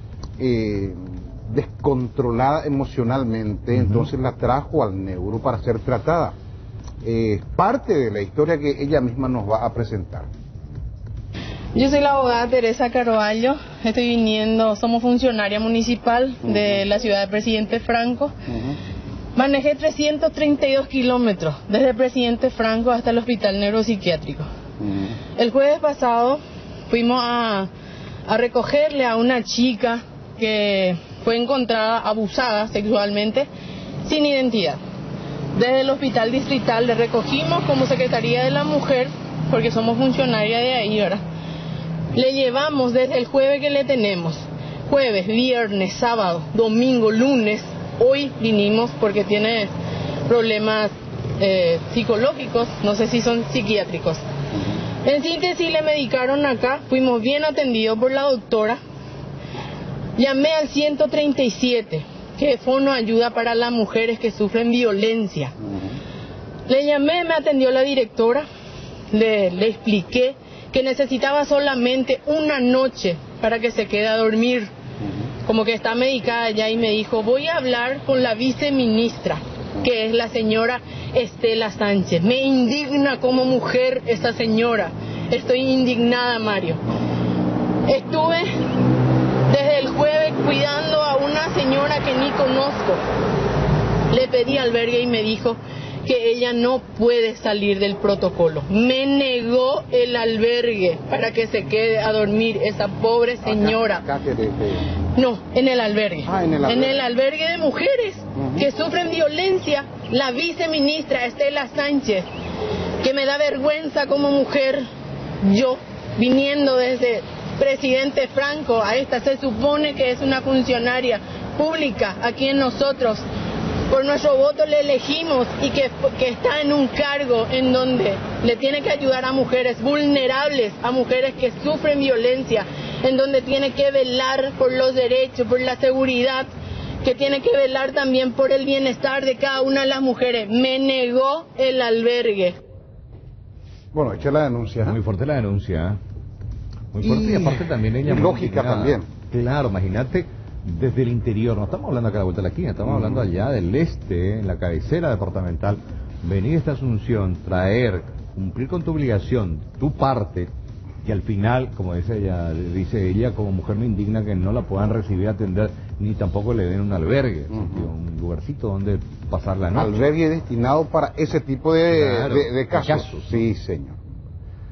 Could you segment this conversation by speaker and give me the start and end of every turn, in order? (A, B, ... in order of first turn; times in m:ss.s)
0:00.4-0:06.4 A
0:07.0-0:10.3 A
0:11.7-0:18.3 B
0:19.4-0:24.5 B
0:24.8-0:25.2 A
0:25.4-0:27.7 B
0:28.3-0:33.5 B
0:34.0-0:34.8 B
0:35.5-0:41.2 B
0:42.1-0:49.7 B
0:50.3-0:54.2 B
0:55.0-0:58.8 B
1:00.2-1:05.5 B
1:06.7-1:08.5 B
1:09.1-1:14.7 B
1:15.5-1:26.8 B
1:27.9-1:28.5 B
1:29.5-1:33.0 B
1:34.1-1:44.0 B
1:43.4-1:44.9 A
1:45.2-1:52.3 B
1:46.3-1:47.0 A
1:48.4-1:48.7 A
1:53.0-1:54.8 B
1:55.4-2:03.2 B
2:03.9-2:16.5 B
2:17.0-2:22.6 B
2:23.9-2:25.0 A
2:24.8-2:26.0 C
2:26.9-2:40.5 C
2:27.0-2:29.1 A
2:41.0-2:50.0 C
2:47.5-2:47.8 A
2:49.8-2:54.0 A
2:51.9-2:53.4 C